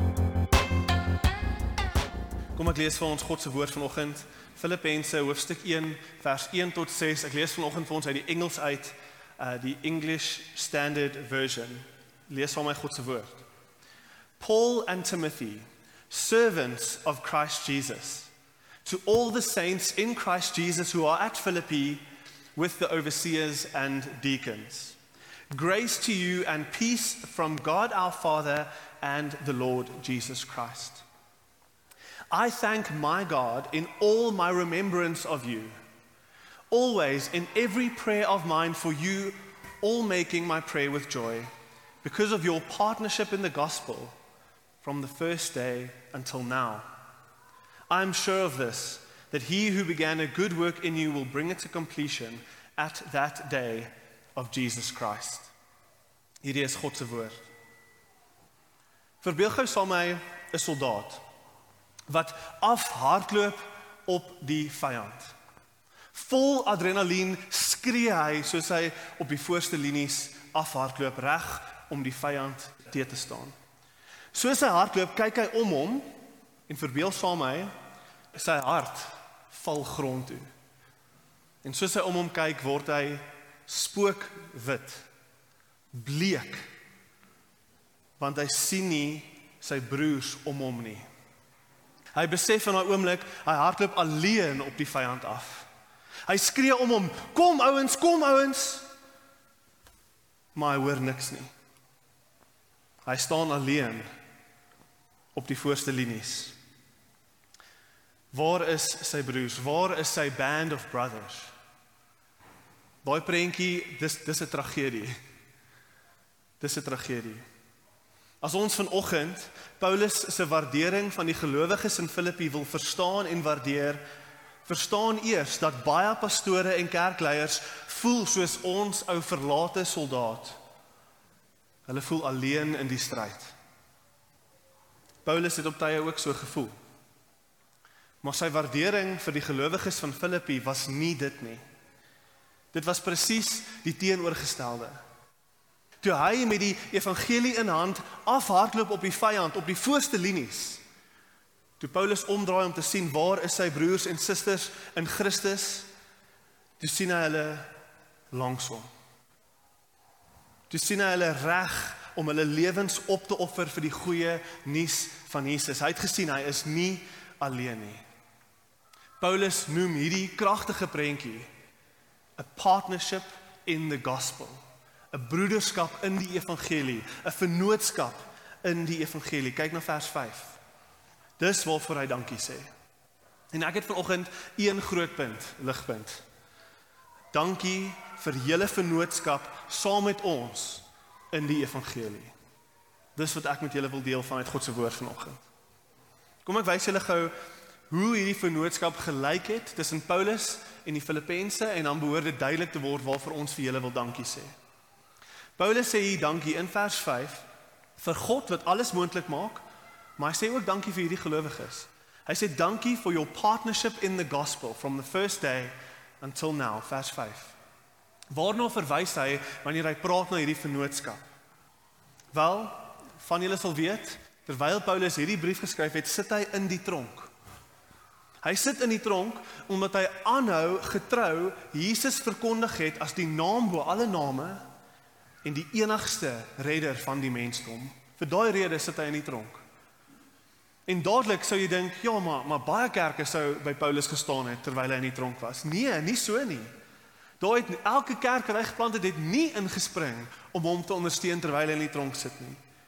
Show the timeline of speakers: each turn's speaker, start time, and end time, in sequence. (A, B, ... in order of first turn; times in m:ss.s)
0:02.6-0:13.4 A
0:14.4-0:18.3 A
0:18.8-0:22.0 A
0:22.6-0:25.0 A
0:25.5-0:31.0 A
0:32.3-0:35.8 A
0:36.7-0:41.5 A
0:42.0-0:44.2 A
0:44.8-0:46.9 A
0:47.9-0:55.5 A
0:56.4-0:57.4 A
0:59.2-1:01.2 A
1:02.1-1:05.3 A
1:06.1-1:13.6 A
1:14.3-1:16.1 A
1:16.7-1:17.7 A
1:18.3-1:20.5 A
1:21.6-1:25.1 A
1:25.9-1:26.6 A
1:28.2-1:31.1 A
1:32.2-1:35.7 A
1:36.3-1:38.9 A
1:40.6-1:41.5 A
1:43.1-1:44.1 A
1:45.3-1:46.6 A
1:48.3-1:51.5 A
1:53.0-1:55.2 A
1:56.6-1:57.4 A
1:58.4-2:04.0 A
2:04.6-2:10.6 A
2:11.9-2:13.6 A
2:15.2-2:16.8 A
2:18.2-2:21.6 A
2:22.7-2:25.0 A
2:26.0-2:30.8 A
2:31.8-2:35.9 A
2:36.8-2:37.7 A
2:38.3-2:38.9 A
2:40.7-2:48.0 A
2:49.2-2:51.5 A
2:52.4-2:54.6 A
2:55.1-3:00.6 A
3:01.4-3:02.7 A
3:03.5-3:06.2 A
3:07.3-3:12.3 A
3:13.2-3:15.4 A
3:16.4-3:17.3 A
3:17.9-3:24.5 A
3:25.6-3:27.5 A
3:28.0-3:29.6 A
3:30.2-3:37.6 A
3:38.3-3:41.2 A
3:42.3-3:47.3 A
3:48.4-3:54.6 A
3:55.4-3:59.6 A
4:00.9-4:06.7 A
4:07.4-4:12.6 A